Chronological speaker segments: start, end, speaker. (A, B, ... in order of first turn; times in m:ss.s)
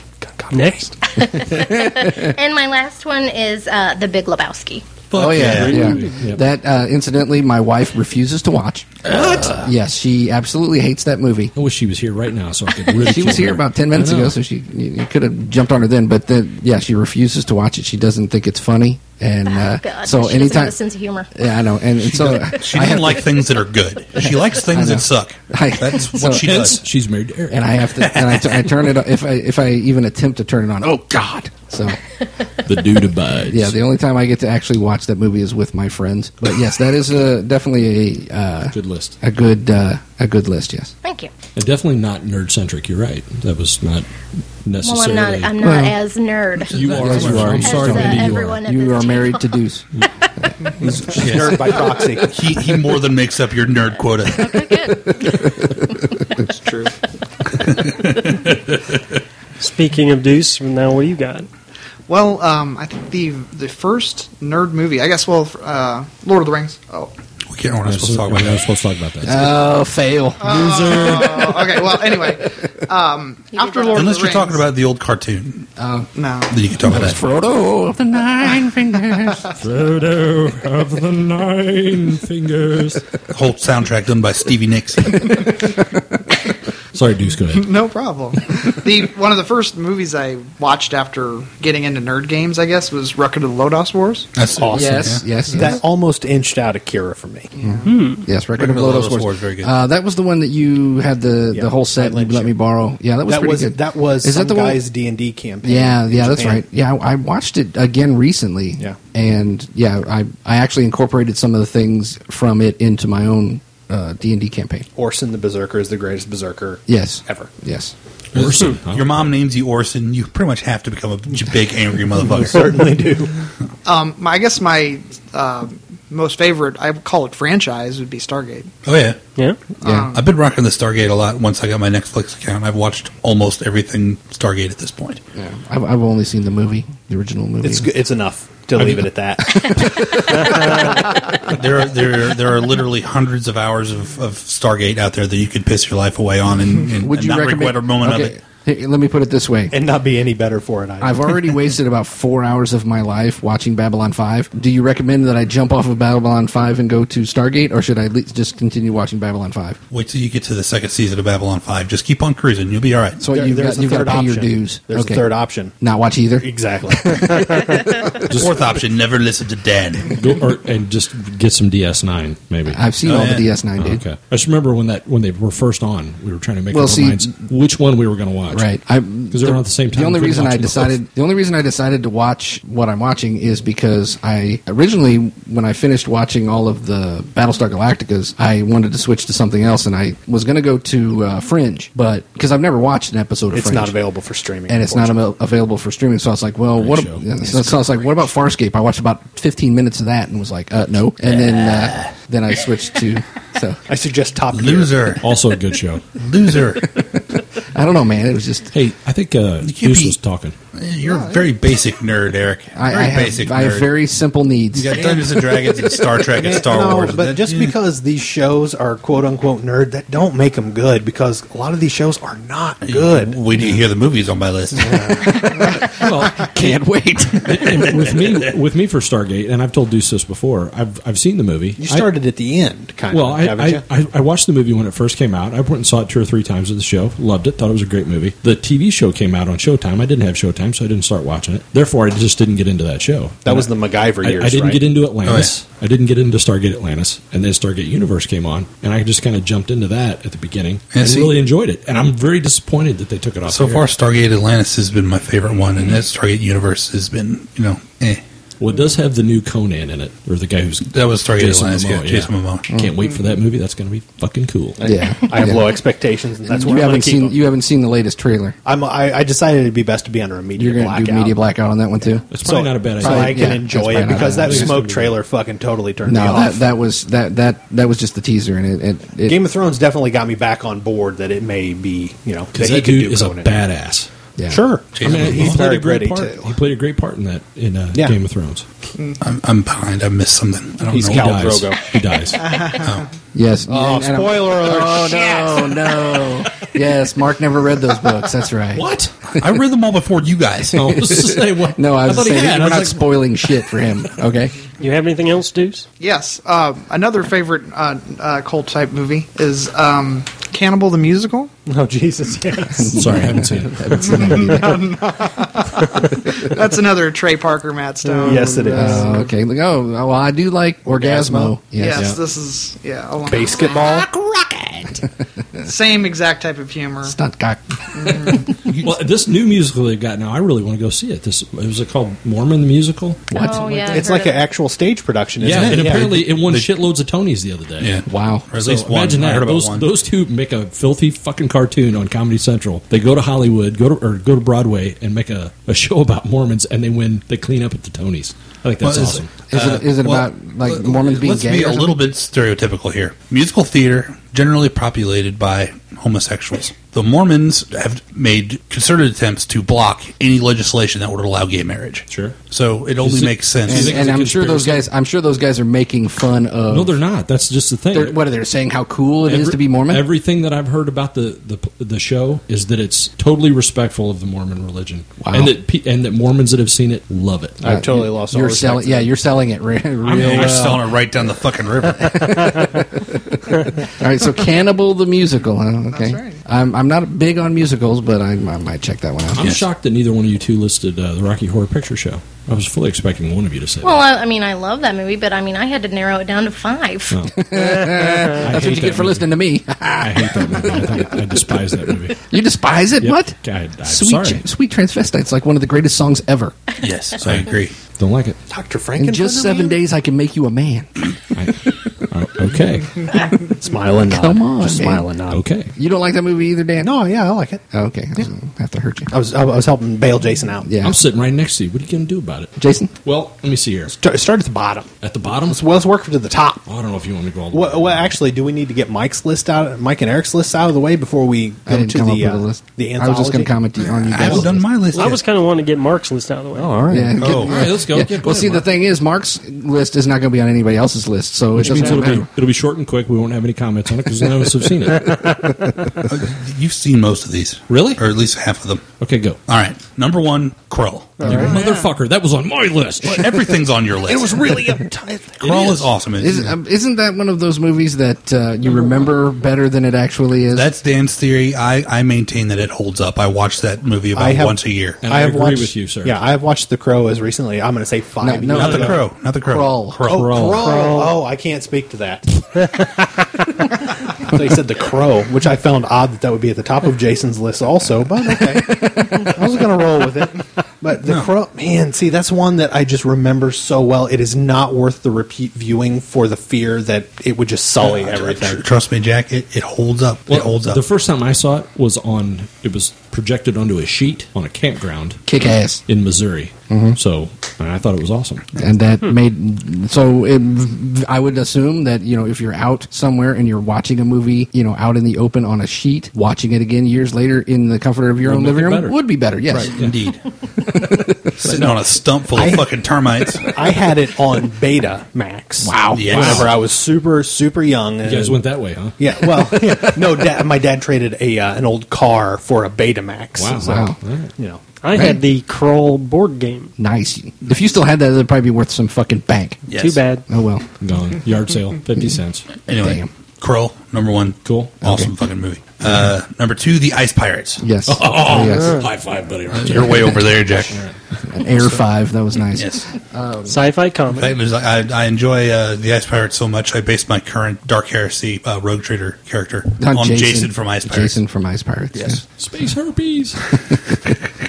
0:00.2-0:00.9 A
0:00.5-0:00.9 B
0:01.1-0:04.8 C
0:01.6-0:02.3 D
0:05.1-0:06.0 E
0:05.1-0:11.5 D
0:05.3-0:06.4 F
0:09.1-0:09.5 F
0:09.2-0:09.5 E
0:11.6-0:14.4 F
0:13.0-0:20.8 D
0:19.4-0:21.3 C
0:21.3-0:23.2 D
0:22.2-0:26.8 E
0:24.2-0:26.8 D
0:26.3-0:27.7 F
0:27.5-0:32.0 D
0:28.0-0:28.5 E
0:32.6-0:33.7 F
0:33.5-0:40.9 D
0:38.7-0:39.2 F
0:41.0-0:41.3 C
0:41.6-0:44.1 F
0:44.6-0:45.5 F
0:44.8-0:50.1 C
0:45.6-0:46.0 D
0:46.7-0:48.6 F
0:46.8-0:47.9 E
0:46.9-0:49.9 D
0:50.4-0:51.2 D
0:51.0-0:52.4 A
0:51.1-0:51.6 E
0:52.2-0:54.7 E
0:54.4-0:55.3 C
0:56.4-0:56.9 G
0:57.6-0:58.5 E
0:59.6-1:01.5 B
1:02.1-1:07.1 G
1:07.5-1:08.7 E
1:07.8-1:09.6 F
1:09.2-1:12.2 D
1:10.4-1:14.7 G
1:10.4-1:11.6 F
1:13.5-1:14.2 C
1:13.9-1:15.7 E
1:15.8-1:16.1 D
1:16.1-1:16.6 G
1:16.5-1:17.2 E
1:16.8-1:19.6 D
1:19.6-1:23.2 F
1:23.3-1:25.6 E
1:25.2-1:25.8 D
1:26.9-1:27.7 F
1:27.5-1:34.3 G
1:34.3-1:35.2 E
1:34.6-1:37.5 A
1:34.7-1:35.8 D
1:37.6-1:38.0 G
1:37.6-1:44.8 D
1:37.8-1:38.2 B
1:38.6-1:39.7 E
1:41.5-1:42.5 A
1:43.2-1:46.6 A
1:45.6-1:54.9 D
1:55.0-1:57.5 A
1:56.9-1:57.9 D
1:58.3-1:59.3 F
1:58.3-2:02.6 E
2:02.2-2:03.4 A
2:03.8-2:08.7 G
2:08.8-2:09.2 E
2:09.4-2:09.6 B
2:09.8-2:10.3 G
2:10.0-2:15.2 E
2:15.3-2:17.9 D
2:17.6-2:21.0 A
2:19.5-2:20.4 D
2:20.5-2:20.8 B
2:21.4-2:28.4 E
2:27.0-2:29.8 D
2:29.7-2:31.5 A
2:31.0-2:39.8 D
2:39.9-2:43.2 E
2:43.2-2:47.8 D
2:43.3-2:45.8 A
2:46.4-2:47.4 A
2:48.3-2:48.7 F
2:48.3-2:50.2 E
2:50.1-2:58.7 F
2:52.6-2:54.0 D
2:53.0-2:53.5 E
2:56.7-2:57.3 D
2:58.5-3:14.0 D
2:59.3-3:00.9 F
3:13.5-3:15.2 A
3:14.7-3:23.8 D
3:16.8-3:17.8 F
3:23.9-3:25.2 A
3:24.5-3:25.2 E
3:25.2-3:26.1 F
3:26.2-3:27.0 E
3:27.6-3:28.7 D
3:28.7-3:30.6 F
3:29.6-3:30.2 E
3:30.7-3:33.9 E
3:31.0-3:31.5 G
3:32.7-3:35.1 D
3:34.7-3:37.8 E
3:34.9-3:43.4 A
3:42.8-3:45.2 E
3:44.8-3:45.3 A
3:45.2-3:47.9 D
3:45.9-3:46.8 F
3:47.4-3:52.1 F
3:51.8-3:53.8 A
3:53.1-4:03.7 F
4:03.4-4:04.8 A
4:04.2-4:13.9 F
4:05.2-4:05.5 E
4:10.9-4:11.4 E
4:13.4-4:18.2 E
4:18.6-4:24.8 F
4:20.9-4:22.7 E
4:24.8-4:27.4 A
4:24.8-4:25.8 D
4:26.4-4:28.6 D
4:28.6-4:31.3 A
4:30.6-4:32.3 D
4:32.3-4:35.2 F
4:32.4-4:36.6 A
4:33.0-4:34.8 D
4:36.0-4:39.4 D
4:39.2-4:43.6 A
4:42.5-4:44.1 F
4:44.4-4:44.6 D
4:44.5-4:46.6 A
4:44.9-4:45.6 E
4:45.0-4:48.6 F
4:49.2-4:51.6 E
4:50.8-4:51.8 A
4:50.9-4:52.6 F
4:52.3-4:53.0 G
4:52.7-4:53.0 E
4:53.3-4:58.8 D
4:53.7-4:55.8 A
4:58.7-4:59.1 F
4:59.3-5:00.8 E
5:00.7-5:04.5 D
5:00.7-5:03.7 F
5:04.8-5:05.9 B
5:06.0-5:11.5 G
5:11.7-5:13.1 A
5:12.7-5:14.8 D
5:12.9-5:14.7 F
5:14.4-5:18.8 G
5:18.0-5:19.0 B
5:18.2-5:19.2 A
5:18.7-5:22.1 D
5:20.9-5:21.6 A
5:21.7-5:23.8 G
5:23.3-5:24.1 A
5:23.7-5:25.0 D
5:25.6-5:27.2 G
5:27.0-5:28.4 D
5:28.0-5:28.4 G
5:28.8-5:33.2 F
5:33.3-5:33.9 D
5:33.3-5:34.4 C
5:33.8-5:36.2 A
5:35.4-5:38.0 F
5:35.5-5:36.7 E
5:37.8-5:39.9 E
5:38.1-5:38.4 D
5:38.5-5:49.4 F
5:48.8-6:04.1 E
5:49.5-5:52.0 D
6:02.1-6:02.4 F
6:03.0-6:04.8 F
6:03.6-6:06.9 D
6:06.7-6:08.2 F
6:07.9-6:10.1 D
6:09.2-6:17.6 F
6:15.2-6:15.6 D
6:17.6-6:19.1 A
6:17.6-6:21.0 D
6:20.0-6:20.8 F
6:20.1-6:22.4 E
6:22.0-6:29.5 D
6:25.9-6:26.4 G
6:29.4-6:34.0 F
6:29.4-6:29.6 E
6:33.8-6:37.2 C
6:37.1-6:39.3 F
6:37.3-6:41.5 D
6:40.0-6:42.2 F
6:42.3-6:46.6 D
6:43.0-6:44.4 F
6:46.8-6:47.7 E
6:47.2-6:48.4 F
6:48.5-6:49.8 A
6:49.0-6:50.9 D
6:51.3-6:53.2 F
6:53.6-6:55.4 A
6:54.1-6:55.1 D
6:55.3-6:55.7 F
6:55.8-6:56.9 D
6:56.8-6:57.6 A
6:57.7-6:59.1 D
6:59.1-7:00.7 A
7:00.6-7:01.0 D
7:00.8-7:04.0 F
7:02.6-7:02.9 D
7:03.9-7:06.7 A
7:05.0-7:05.6 F
7:06.7-7:08.2 F
7:07.5-7:13.5 A
7:11.6-7:14.7 D
7:13.8-7:15.2 E
7:14.2-7:15.0 F
7:14.9-7:16.8 B
7:16.5-7:17.2 A
7:16.8-7:18.7 F
7:16.9-7:22.3 D
7:17.2-7:17.7 E
7:21.5-7:25.3 F
7:21.6-7:22.1 B
7:25.2-7:26.0 D
7:26.0-7:28.8 E
7:27.7-7:28.1 F
7:29.0-7:29.4 F
7:29.5-7:31.5 E
7:31.2-7:31.6 B
7:31.2-7:35.9 F
7:33.0-7:34.4 E
7:34.1-7:35.4 A
7:35.4-7:36.5 E
7:36.2-7:40.7 D
7:38.7-7:39.0 F
7:40.5-7:45.0 E
7:44.1-7:49.0 A
7:45.0-7:46.2 F
7:48.2-7:50.1 D
7:48.5-7:50.4 E
7:50.1-7:52.4 A
7:50.1-7:50.7 F
7:50.6-7:51.2 B
7:54.2-8:08.6 A
8:07.9-8:10.8 E
8:10.3-8:15.2 F
8:15.3-8:15.8 D
8:15.8-8:18.5 F
8:16.7-8:17.0 D
8:18.6-8:29.7 D
8:28.2-8:29.0 F
8:29.6-8:30.2 E
8:30.6-8:31.6 D
8:31.4-8:33.6 E
8:32.3-8:38.4 A
8:35.6-8:36.4 D
8:35.9-8:36.6 E
8:36.1-8:36.5 F
8:38.0-8:40.0 F
8:39.0-8:44.6 A
8:43.4-8:44.3 F
8:43.6-8:44.0 D
8:44.8-8:46.7 B
8:44.9-8:45.2 D
8:46.8-8:49.6 D
8:49.7-8:50.0 E
8:49.7-8:50.2 B
8:50.3-8:50.6 D
8:50.8-8:52.5 F
8:52.6-8:57.6 E
8:52.8-8:53.1 D
8:54.4-8:54.8 F
8:54.8-8:55.1 D
8:57.6-8:58.9 D
8:57.8-9:00.9 F
8:58.4-8:58.9 B
8:59.6-9:00.8 E
8:59.7-9:00.0 D
9:01.3-9:03.6 D
9:02.5-9:02.9 E
9:03.4-9:04.4 B
9:04.1-9:11.2 E
9:09.8-9:12.2 D
9:12.4-9:13.5 F
9:13.6-9:14.2 D